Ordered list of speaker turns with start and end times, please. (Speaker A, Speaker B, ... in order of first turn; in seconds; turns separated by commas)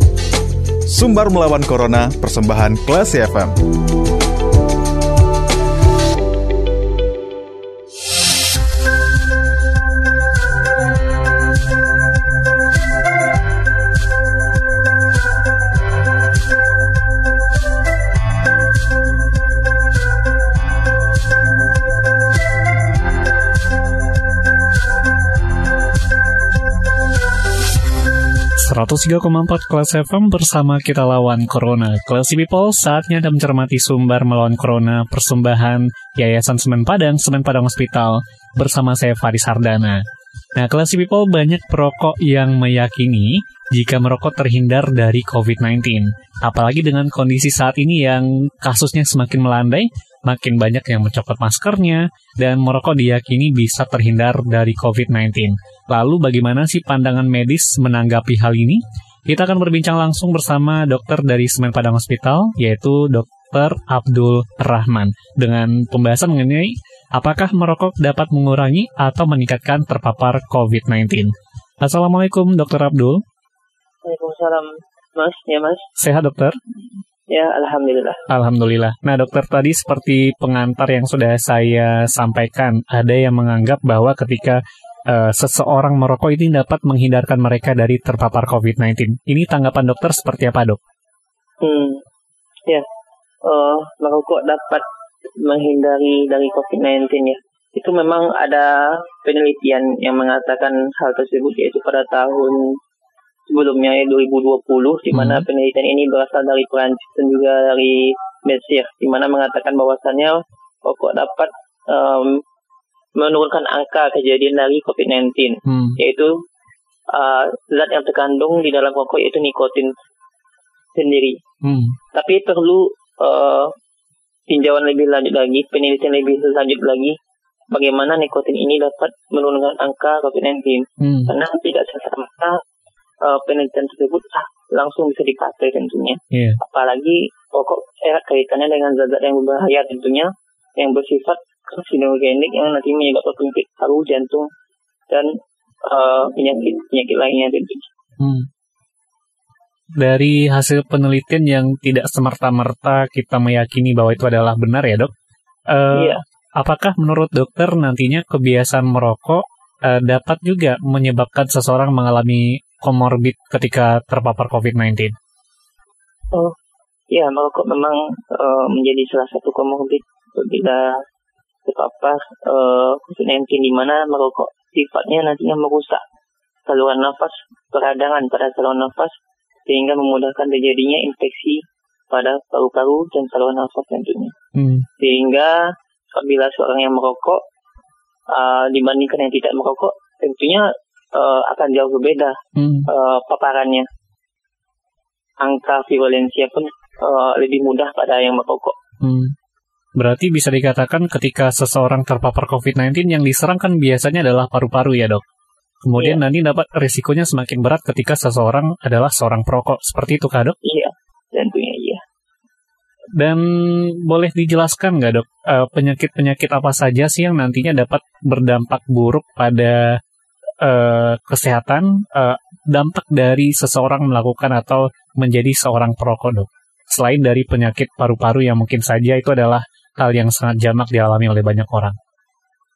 Speaker A: 0.9-3.6, Speaker B: 28.6-40.0, Speaker B: 40.6-73.2, Speaker C: 74.0-75.9, Speaker B: 76.0-76.6, Speaker C: 77.3-78.2, Speaker B: 78.3-90.8, Speaker C: 91.6-92.0, Speaker C: 93.4-94.8, Speaker C: 95.4-102.8, Speaker C: 103.5-112.4, Speaker B: 105.1-105.5, Speaker C: 113.2-116.3, Speaker B: 115.7-116.0, Speaker C: 117.1-119.9, Speaker C: 120.9-121.4, Speaker B: 121.6-122.0, Speaker C: 122.1-123.7, Speaker C: 124.5-127.2, Speaker C: 127.7-132.6, Speaker B: 131.0-131.3, Speaker C: 133.2-144.5, Speaker B: 136.3-136.6, Speaker C: 145.8-147.9, Speaker B: 148.2-148.5, Speaker B: 150.0-155.1, Speaker B: 155.7-165.1, Speaker C: 155.9-156.2, Speaker C: 167.1-171.0, Speaker C: 171.7-176.0, Speaker C: 176.7-179.1, Speaker C: 179.7-184.3, Speaker B: 184.6-184.8, Speaker C: 185.0-185.6, Speaker C: 186.1-187.4, Speaker C: 188.3-193.9, Speaker B: 192.6-192.9, Speaker C: 195.4-198.8, Speaker B: 199.0-199.3, Speaker B: 200.0-205.2, Speaker B: 205.8-210.6, Speaker C: 206.0-206.2, Speaker C: 210.6-212.0, Speaker B: 213.2-220.0, Speaker B: 220.6-231.9